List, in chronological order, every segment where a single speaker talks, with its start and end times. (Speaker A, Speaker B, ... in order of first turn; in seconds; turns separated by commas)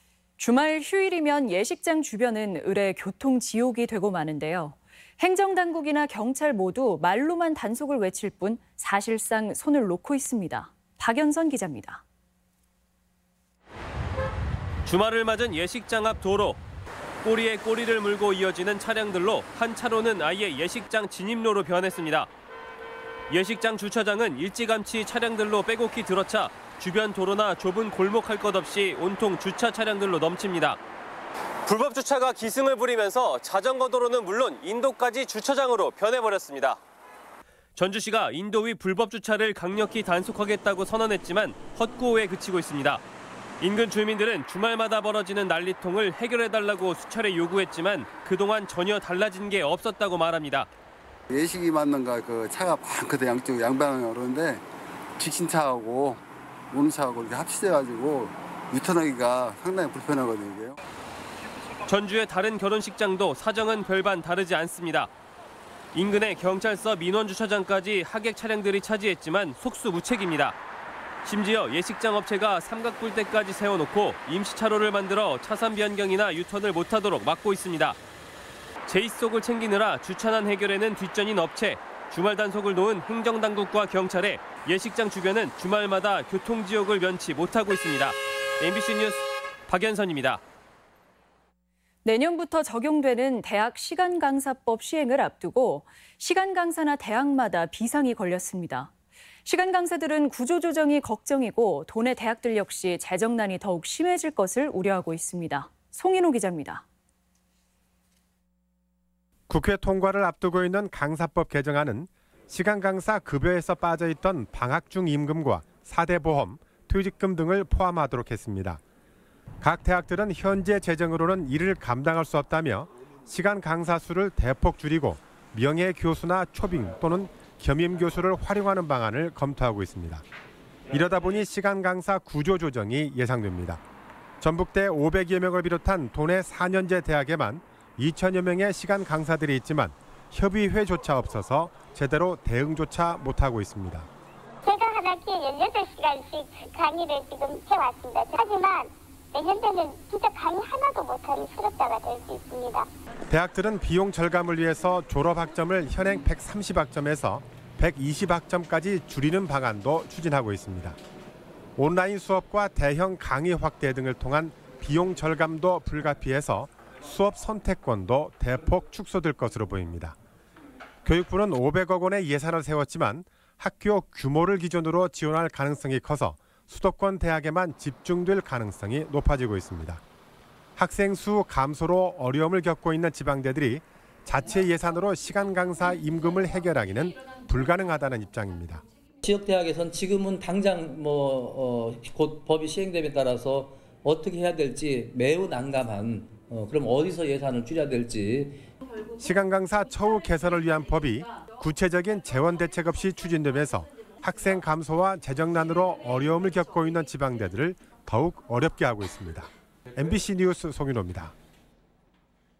Speaker A: 0.4-12.0, Speaker B: 14.8-16.6, Speaker B: 17.2-22.3, Speaker B: 23.3-30.8, Speaker B: 31.6-36.8, Speaker B: 37.8-43.0, Speaker B: 43.6-50.7, Speaker C: 51.3-54.6, Speaker C: 55.2-60.8, Speaker B: 61.9-65.1, Speaker B: 65.9-70.5, Speaker B: 71.2-78.0, Speaker B: 78.9-90.4, Speaker A: 92.0-98.9, Speaker A: 99.4-106.8, Speaker D: 109.5-118.8, Speaker D: 119.6-130.2, Speaker D: 130.9-133.8, Speaker D: 134.4-144.1, Speaker E: 144.6-152.9, Speaker D: 153.3-161.0, Speaker D: 161.8-170.1, Speaker D: 171.0-180.0, Speaker D: 180.8-188.8, Speaker F: 189.2-198.6, Speaker D: 199.2-211.3